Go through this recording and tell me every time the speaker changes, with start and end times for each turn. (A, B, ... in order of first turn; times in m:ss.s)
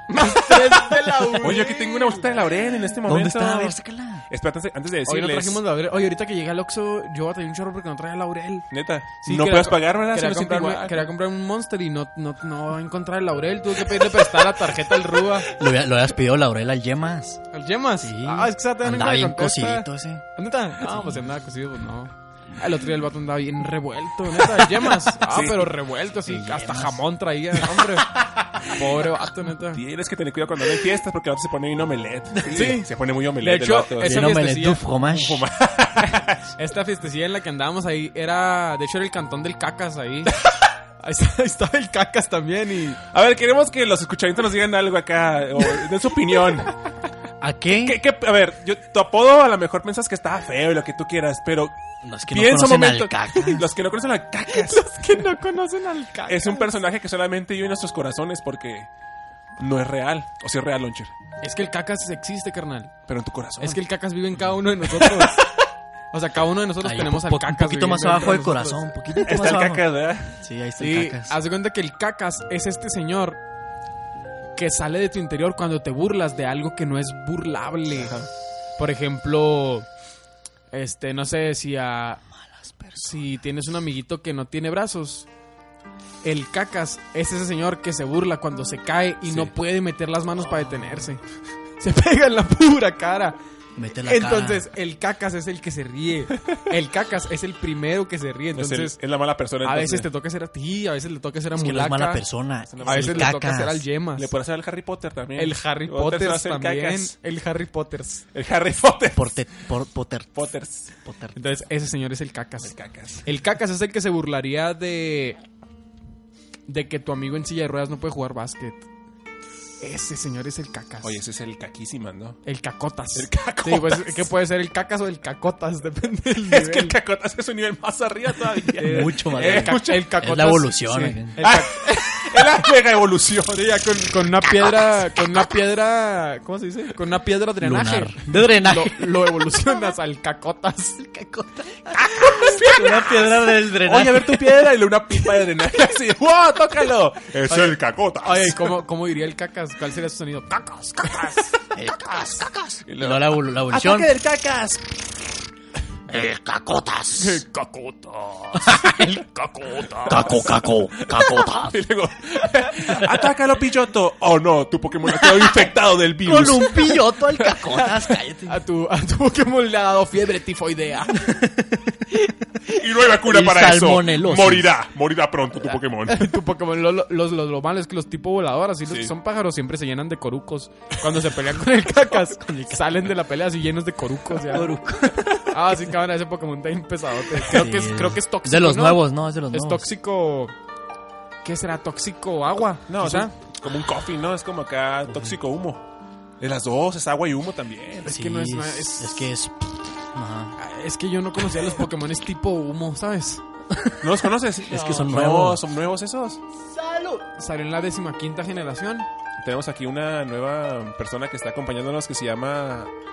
0:00.1-0:02.2 A
0:01.4-0:05.6 B
0:03.0-0:04.2 C
0:05.0-0:08.7 A
0:08.7-0:11.1 B
0:09.2-0:15.5 A
0:15.5-0:17.4 C
0:17.5-0:28.1 A
0:18.0-0:20.2 C
0:20.8-0:21.2 C
0:25.2-0:25.7 B
0:26.2-0:27.0 C
0:28.7-0:29.8 A
0:29.7-0:34.4 B
0:32.5-0:32.9 A
0:33.4-0:34.8 A
0:34.0-0:35.4 C
0:35.1-0:36.4 B
0:36.5-0:40.3 A
0:41.0-0:43.0 A
0:43.1-0:46.7 B
0:47.4-0:48.0 C
0:47.8-0:51.7 B
0:52.0-0:53.7 C
0:52.3-0:55.2 B
0:54.5-0:56.7 A
0:56.3-0:58.9 B
0:59.6-1:01.1 B
1:01.4-1:02.9 A
1:03.1-1:03.8 B
1:03.6-1:05.4 A
1:04.9-1:05.4 B
1:06.1-1:08.9 A
1:06.8-1:11.4 C
1:09.2-1:10.4 B
1:10.8-1:13.4 A
1:14.6-1:18.1 A
1:17.9-1:18.3 B
1:18.8-1:19.8 A
1:20.7-1:22.2 A
1:22.3-1:23.3 C
1:23.0-1:25.3 A
1:26.2-1:31.2 A
1:29.2-1:29.5 B
1:30.4-1:31.2 C
1:31.8-1:33.4 A
1:33.8-1:34.7 C
1:34.0-1:39.0 A
1:38.5-1:40.1 B
1:39.6-1:42.2 A
1:41.5-1:43.8 C
1:42.7-1:43.3 B
1:42.8-1:44.3 A
1:44.2-1:47.1 B
1:45.4-1:48.2 A
1:48.3-1:49.3 B
1:49.1-1:50.3 C
1:50.3-1:50.9 B
1:51.0-1:51.4 C
1:51.4-1:52.7 A
1:52.6-1:53.2 B
1:53.2-1:55.4 A
1:56.7-1:58.8 A
1:59.8-2:01.1 A
2:01.0-2:02.4 B
2:02.4-2:07.0 A
2:03.1-2:04.3 B
2:06.4-2:10.2 B
2:08.8-2:11.4 C
2:08.8-2:10.8 A
2:10.9-2:13.8 B
2:11.3-2:12.3 A
2:13.5-2:21.3 A
2:14.6-2:15.0 C
2:17.6-2:19.5 C
2:21.2-2:24.6 C
2:22.0-2:28.6 B
2:27.5-2:31.5 A
2:31.7-2:34.1 C
2:32.8-2:34.8 B
2:36.1-2:37.4 C
2:37.2-2:40.4 A
2:38.6-2:39.0 C
2:40.1-2:41.8 C
2:40.2-2:47.6 B
2:45.3-2:45.7 C
2:46.2-2:48.6 C
2:48.4-2:51.4 A
2:51.1-2:54.8 C
2:52.8-2:56.3 B
2:56.1-3:04.7 A
3:02.4-3:02.6 C
3:04.5-3:05.4 C
3:05.5-3:10.5 A
3:07.4-3:09.9 C
3:11.4-3:13.3 A
3:12.9-3:15.8 B
3:15.1-3:15.4 C
3:16.4-3:18.1 B
3:18.0-3:19.3 A
3:18.0-3:20.5 C
3:20.6-3:23.4 A
3:23.7-3:24.1 C
3:24.0-3:26.4 B
3:24.6-3:25.6 C
3:26.8-3:29.1 A
3:29.4-3:32.9 B